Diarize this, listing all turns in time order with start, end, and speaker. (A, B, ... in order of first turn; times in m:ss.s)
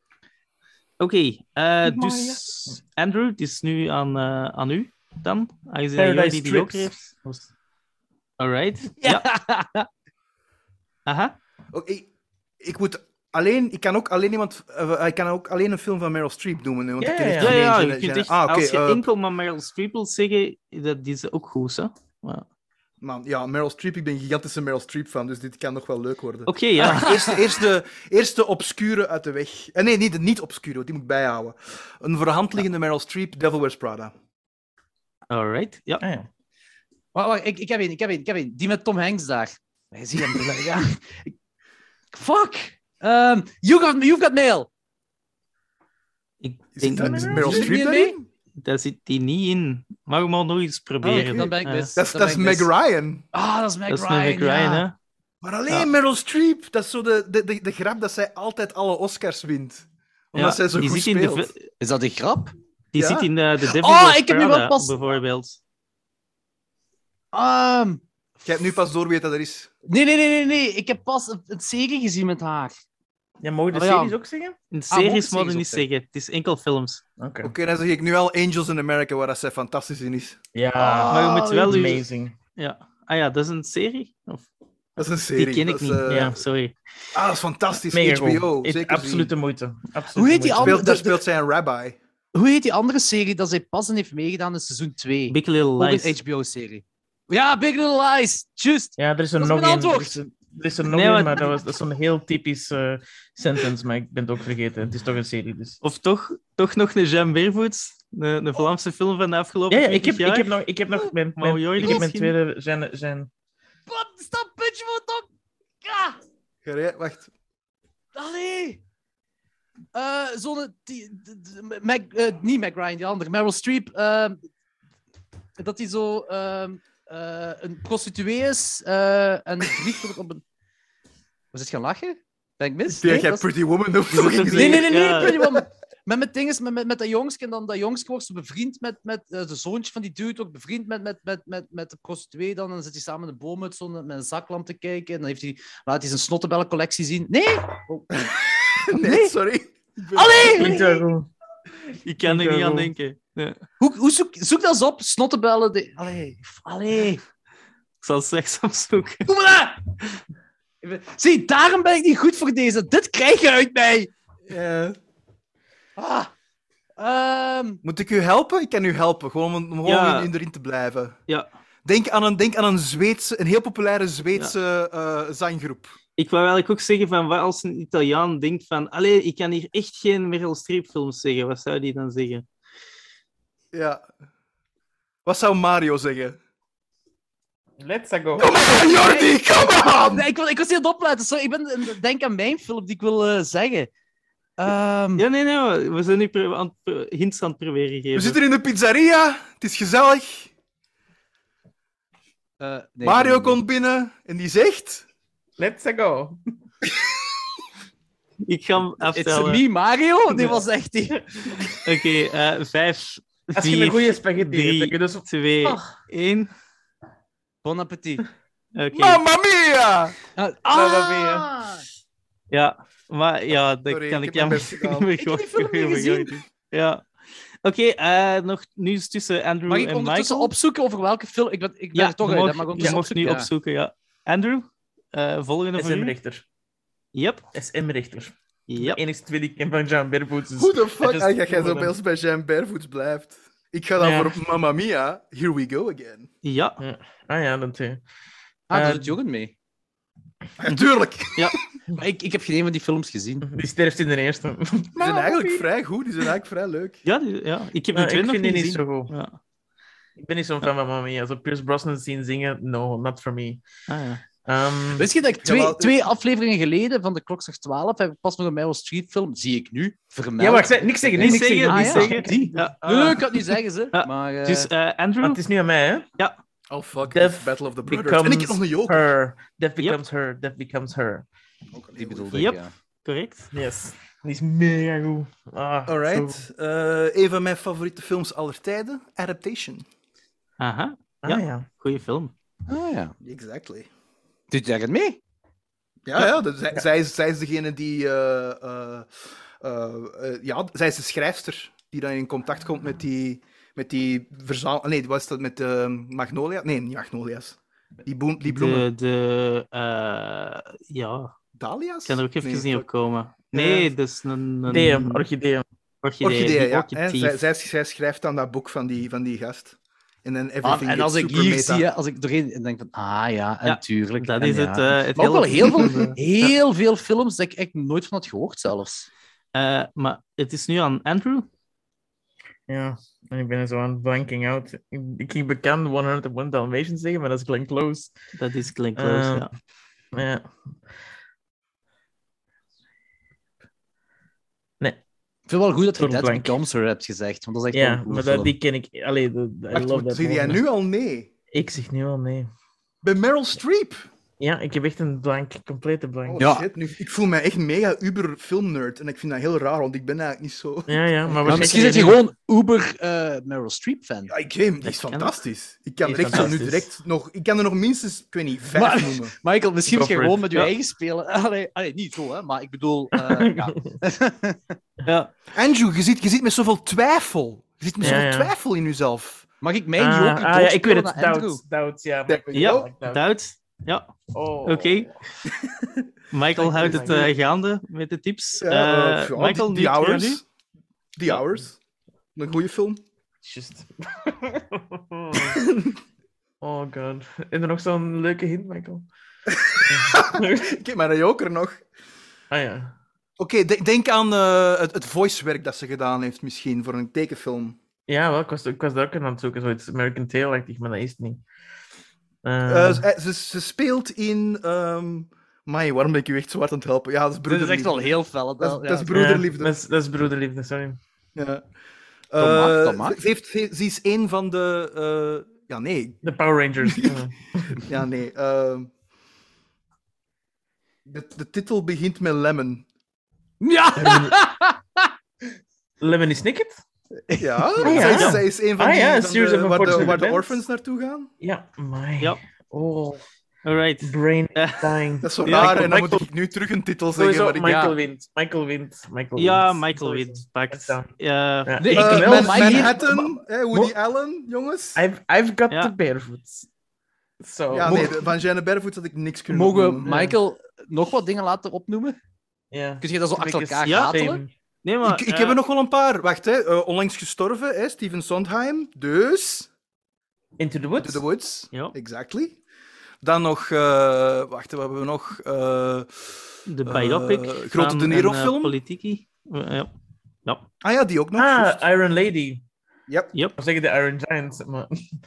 0:01.0-0:07.0 A
0:01.9-0:02.7 B
0:06.0-0:07.5 B
0:08.4-0:09.2 A
0:09.0-0:09.9 C
0:11.0-0:11.3 A
0:11.7-0:12.1 D
0:12.6-0:19.0 D
0:17.0-0:17.6 B
0:17.4-0:22.4 A
0:23.0-0:34.1 D
0:26.5-0:27.3 A
0:26.8-0:27.4 C
0:35.3-0:36.0 A
0:36.0-0:36.2 B
0:37.1-0:41.3 C
0:42.1-0:44.7 C
0:46.4-0:47.7 A
0:46.8-0:48.3 D
0:47.0-0:47.6 B
0:47.3-0:48.2 C
0:48.6-0:51.9 A
0:51.0-0:52.7 C
0:51.3-0:53.2 D
0:53.3-0:54.8 C
0:53.9-0:54.9 A
0:55.4-1:01.5 D
1:00.3-1:01.6 A
1:01.8-1:02.5 C
1:02.9-1:05.6 A
1:03.0-1:03.3 D
1:03.6-1:05.0 C
1:07.3-1:08.0 C
1:08.4-1:09.7 D
1:09.9-1:12.7 C
1:13.4-1:14.5 B
1:13.7-1:14.2 C
1:14.7-1:17.0 A
1:14.9-1:15.8 C
1:17.2-1:17.5 B
1:17.4-1:20.4 D
1:20.5-1:22.3 B
1:20.8-1:22.0 C
1:21.1-1:22.0 A
1:22.6-1:24.4 A
1:25.0-1:26.3 D
1:25.3-1:26.7 A
1:26.1-1:26.4 B
1:27.1-1:29.3 D
1:27.9-1:30.8 B
1:30.1-1:31.2 C
1:30.6-1:32.0 D
1:32.3-1:40.2 C
1:35.3-1:36.1 A
1:39.0-1:45.8 B
1:40.9-1:41.5 A
1:45.8-1:50.5 A
1:49.7-1:53.3 B
1:51.4-1:52.3 A
1:53.9-1:55.3 C
1:55.8-1:56.2 C
1:56.6-1:57.3 D
1:58.1-1:58.8 C
1:59.9-2:04.4 C
2:05.6-2:10.4 C
2:11.5-2:13.4 C
2:13.0-2:15.3 D
2:14.1-2:28.2 C
2:14.2-2:15.4 A
2:28.2-2:30.8 D
2:28.9-2:29.3 C
2:30.1-2:31.0 C
2:30.5-2:31.3 B
2:32.0-2:33.6 A
2:32.2-2:32.9 B
2:33.8-2:37.2 C
2:38.0-2:39.3 A
2:39.3-2:39.8 C
2:40.8-2:44.1 C
2:44.5-2:45.0 D
2:46.0-2:46.3 C
2:47.0-2:47.8 C
2:47.8-2:51.2 D
2:49.8-2:50.3 A
2:51.8-2:56.0 D
2:56.2-3:02.4 A
3:03.7-3:04.0 D
3:05.2-3:06.4 D
3:07.8-3:08.5 B
3:08.4-3:10.3 D
3:08.4-3:13.9 C
3:14.6-3:15.2 C
3:15.2-3:18.4 A
3:18.1-3:20.5 D
3:22.6-3:23.6 C
3:23.0-3:25.0 D
3:25.6-3:26.4 B
3:28.4-3:29.6 A
3:29.1-3:31.6 C
3:31.8-3:36.5 A
3:33.5-3:35.9 B
3:37.6-3:38.2 C
3:38.7-3:39.2 A
3:38.9-3:40.2 D
3:40.4-3:41.8 C
3:40.7-3:41.4 B
3:42.5-3:47.0 A
3:43.9-3:45.1 D
3:45.2-3:46.4 C
3:47.6-3:50.5 A
3:49.7-3:53.5 C
3:51.9-3:56.1 A
3:55.8-3:56.4 B
3:57.1-3:57.4 A
3:57.5-4:02.0 B
3:58.7-3:59.0 A
4:00.6-4:06.3 D
4:04.0-4:04.3 B
4:06.4-4:06.8 A
4:06.8-4:08.0 B
4:08.7-4:09.5 C
4:08.7-4:09.2 B
4:10.6-4:11.6 D
4:12.0-4:13.4 C
4:13.4-4:15.6 B
4:15.0-4:17.0 D
4:17.0-4:19.4 A
4:17.9-4:19.1 B
4:20.2-4:23.6 B
4:23.9-4:24.2 A
4:24.4-4:25.1 B
4:25.0-4:34.7 C
4:25.4-4:26.0 D
4:30.4-4:32.6 B
4:31.2-4:33.3 A
4:32.8-4:33.2 D
4:33.9-4:35.4 A
4:35.2-4:36.1 B
4:36.7-4:39.0 D
4:37.1-4:41.2 B
4:41.7-4:42.7 C
4:41.9-4:42.3 D
4:42.3-4:43.5 A
4:43.5-4:46.4 B
4:45.9-4:49.8 D
4:50.6-4:52.3 A
4:51.2-4:51.7 B
4:52.7-4:53.1 C
4:53.2-4:53.9 D
4:54.5-4:55.2 C
4:56.0-5:08.8 D
5:08.4-5:11.3 A
5:11.6-5:12.8 D
5:12.0-5:15.2 A
5:13.5-5:13.9 D
5:14.7-5:15.6 B
5:16.0-5:17.4 A
5:16.2-5:21.8 D
5:20.6-5:29.1 C
5:23.6-5:26.2 A
5:25.6-5:26.1 D
5:29.5-5:31.5 A
5:32.7-5:38.1 B
5:38.3-5:39.5 A
5:39.0-5:39.5 B
5:40.1-5:40.5 B
5:45.5-5:48.5 C
5:46.0-5:46.6 B
5:47.7-5:50.6 B
5:49.7-5:51.3 D
5:51.5-5:52.5 B
5:53.0-5:54.0 D
5:54.4-5:56.5 B
5:56.2-6:01.8 D
5:56.4-5:56.7 C
6:00.9-6:02.2 B
6:01.4-6:04.3 C
6:04.3-6:09.3 D
6:04.8-6:05.4 A
6:06.0-6:06.9 B
6:08.7-6:14.8 C
6:09.9-6:10.7 B
6:13.3-6:14.0 B
6:15.0-6:15.3 A
6:15.5-6:19.5 D
6:18.0-6:18.5 B
6:19.6-6:21.6 C
6:20.0-6:23.2 B
6:22.3-6:22.9 D
6:22.5-6:24.1 A
6:24.3-6:25.2 B
6:24.6-6:25.1 A
6:25.5-6:26.0 D
6:26.3-6:30.4 A
6:26.6-6:27.3 B
6:28.6-6:30.4 D
6:31.2-6:31.8 D
6:32.3-6:33.0 D
6:33.4-6:35.6 B
6:35.5-6:35.9 D
6:36.6-6:39.0 B
6:39.5-6:41.8 D
6:39.8-6:40.7 B
6:42.5-6:43.0 B
6:43.4-6:47.8 D
6:48.1-6:51.4 B
6:52.4-6:53.0 B
6:52.7-6:59.7 D
6:57.5-6:59.1 C
6:59.1-7:01.0 B
7:01.4-7:01.6 D
7:02.3-7:06.2 D
7:02.4-7:03.2 C
7:06.2-7:07.8 B
7:06.8-7:08.9 D
7:11.0-7:12.8 D
7:13.6-7:15.1 C
7:14.0-7:14.4 B
7:16.0-7:16.8 B
7:17.3-7:18.0 C
7:17.4-7:21.3 D
7:17.8-7:20.6 B
7:17.8-7:18.4 A
7:21.4-7:23.2 B
7:23.6-7:25.9 A
7:24.0-7:26.3 B
7:25.2-7:27.8 D
7:27.2-7:31.1 B
7:27.6-7:27.9 C
7:29.4-7:31.9 A
7:31.6-7:32.9 B
7:31.8-7:33.9 C
7:31.9-7:35.0 D
7:35.0-7:36.7 B
7:37.4-7:38.1 B
7:37.7-7:40.2 D
7:37.9-7:38.1 C
7:39.5-7:42.2 C
7:40.0-7:40.3 B
7:42.7-7:44.5 B
7:43.0-7:44.4 C
7:43.8-7:44.3 A
7:44.8-7:45.6 A
7:45.0-7:49.7 D
7:50.6-7:51.2 B
7:51.0-7:52.6 D
7:53.2-7:56.3 D
7:56.7-7:59.9 A
7:56.8-7:58.8 D
8:00.8-8:01.8 D
8:01.4-8:02.6 B
8:03.6-8:05.1 B